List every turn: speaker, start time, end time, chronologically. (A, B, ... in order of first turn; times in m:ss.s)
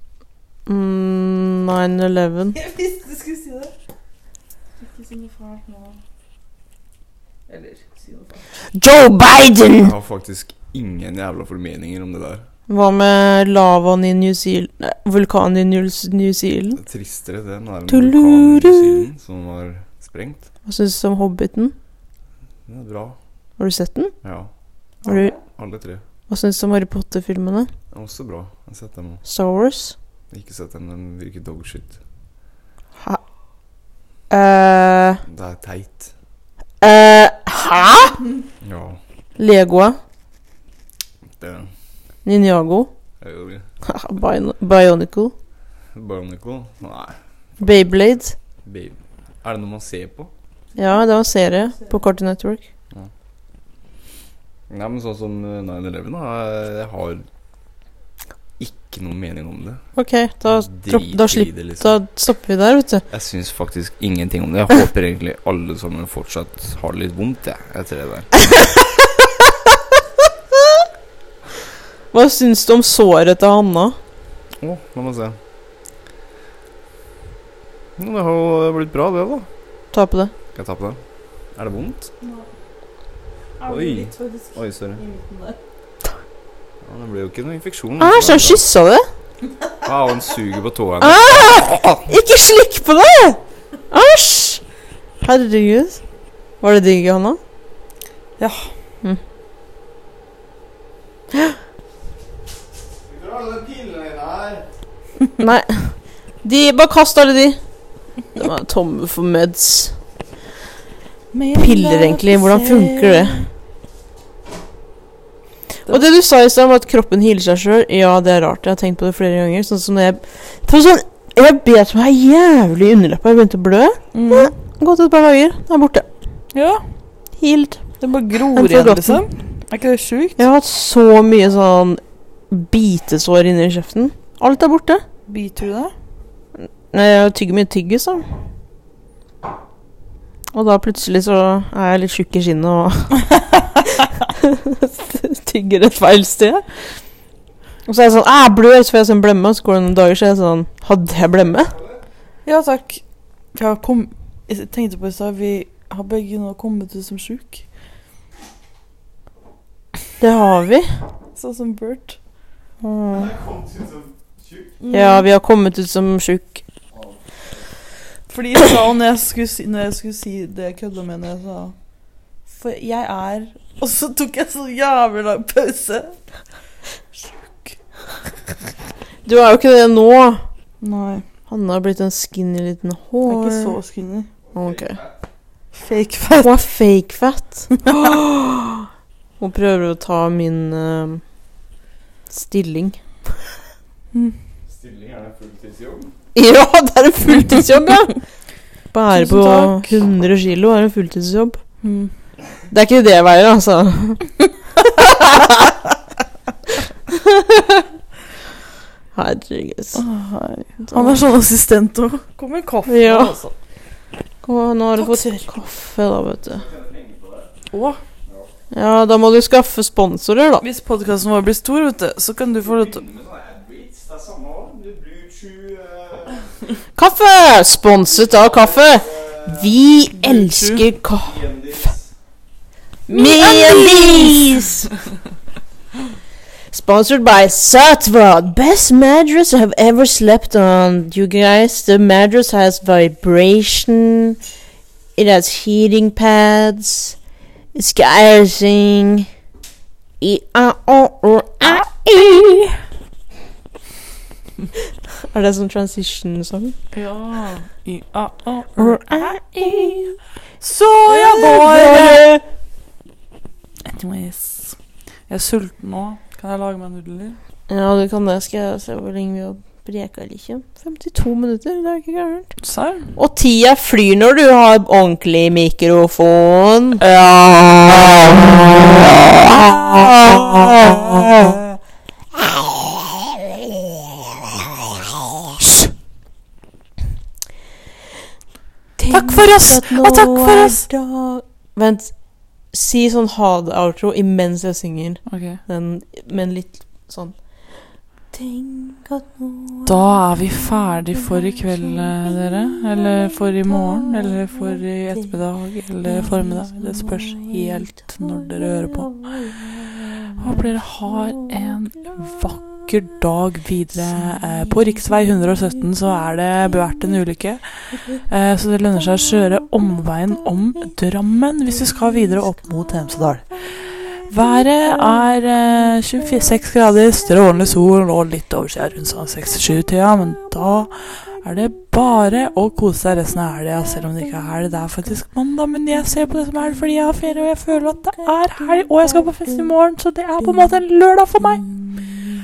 0:00.6-0:02.6 A
0:02.5-0:03.7 B
0:04.8-0:06.0 B
0:07.5-0:08.5 B
0:08.7-0:09.9 A
0:09.8-0:12.4 C
0:12.7-0:16.8 A
0:16.8-0:20.4 C
0:17.9-0:19.0 A
0:20.6-0:21.7 A
0:22.7-0:23.2 C
0:23.6-0:24.1 A
0:24.2-0:24.5 C
0:25.0-0:25.4 B
0:25.0-0:25.3 A
0:25.4-0:26.0 C
0:26.3-0:27.7 A
0:27.9-0:29.2 C
0:29.2-0:29.9 A
0:30.3-0:32.0 C
0:34.3-0:35.2 A
0:35.3-0:36.1 C
0:36.8-0:38.2 A
0:38.6-0:39.0 C
0:39.4-0:40.0 A
0:41.4-0:41.7 C
0:42.2-0:42.9 A
0:43.2-0:43.6 C
0:43.8-0:45.3 A
0:45.9-0:47.7 C
0:47.6-0:48.3 A
0:48.6-0:50.3 C
0:50.8-0:52.6 A
0:51.6-0:52.0 B
0:54.7-0:57.2 C
0:58.6-0:59.8 C
1:00.0-1:03.0 A
1:00.4-1:01.9 C
1:03.1-1:08.3 C
1:09.2-1:09.5 A
1:10.5-1:10.8 A
1:12.1-1:14.0 A
1:14.6-1:15.4 C
1:18.0-1:19.5 C
1:19.9-1:20.3 A
1:20.5-1:21.0 C
1:21.6-1:22.1 C
1:22.2-1:22.5 B
1:23.6-1:25.6 B
1:23.7-1:25.0 C
1:26.8-1:28.6 C
1:28.0-1:29.1 A
1:29.8-1:31.8 C
1:31.0-1:33.4 A
1:33.9-1:34.6 A
1:35.2-1:36.0 A
1:36.6-1:37.4 A
1:38.4-1:38.7 B
1:41.3-1:41.6 A
1:43.1-1:44.6 C
1:45.4-1:47.6 A
1:48.3-1:50.0 A
1:51.3-1:53.5 B
1:51.6-1:53.4 A
1:55.9-2:06.1 A
2:04.1-2:04.5 B
2:06.5-2:06.9 B
2:07.4-2:07.8 A
2:08.0-2:10.4 B
2:08.5-2:09.2 A
2:10.4-2:15.0 A
2:15.3-2:15.9 B
2:16.6-2:18.2 A
2:20.5-2:23.2 A
2:24.2-2:27.0 A
2:27.8-2:31.8 A
2:32.4-2:33.0 B
2:33.5-2:37.6 B
2:40.2-2:40.9 A
2:41.3-2:42.2 B
2:42.8-2:43.4 A
2:43.1-2:44.7 C
2:44.8-2:45.2 B
2:44.9-2:46.6 A
2:48.3-2:51.7 B
2:52.5-2:56.2 B
2:57.3-2:57.7 B
2:59.2-3:00.4 A
3:00.8-3:01.2 B
3:01.5-3:03.8 A
3:03.2-3:04.3 B
3:04.5-3:05.0 A
3:04.5-3:05.1 C
3:05.7-3:06.5 B
3:06.4-3:08.9 A
3:09.4-3:11.2 A
3:12.3-3:13.0 A
3:14.7-3:16.1 C
3:16.3-3:18.1 A
3:18.9-3:21.6 A
3:19.1-3:20.0 B
3:21.8-3:22.1 B
3:22.7-3:24.3 A
3:24.8-3:25.7 A
3:27.1-3:27.9 A
3:29.1-3:30.0 A
3:29.9-3:33.5 B
3:30.8-3:31.2 A
3:32.9-3:33.3 A
3:34.4-3:36.6 A
3:34.9-3:35.5 B
3:36.5-3:37.5 C
3:37.7-3:38.0 B
3:38.7-3:40.6 A
3:40.6-3:43.0 B
3:42.6-3:46.4 C
3:47.0-3:51.8 A
3:48.1-3:49.8 C
3:50.1-3:50.8 B
3:51.2-3:52.1 C
3:53.1-3:54.9 A
3:53.1-3:54.6 B
3:56.7-4:04.4 A
4:05.2-4:07.2 A
4:07.7-4:09.3 A
4:10.2-4:12.8 A
4:15.2-4:16.8 A
4:16.9-4:22.2 B
4:18.8-4:20.2 A
4:21.1-4:22.4 A
4:23.8-4:24.8 B
4:25.3-4:27.4 B
4:27.7-4:32.5 A
4:32.6-4:33.2 B
4:33.1-4:41.8 A
4:42.5-4:43.4 A
4:49.0-4:52.2 A
4:49.1-4:50.8 B
4:52.7-4:57.5 A
4:55.3-4:55.6 B
4:58.3-5:05.4 A
4:59.8-5:09.1 B
5:06.0-5:11.5 A
5:10.4-5:42.0 B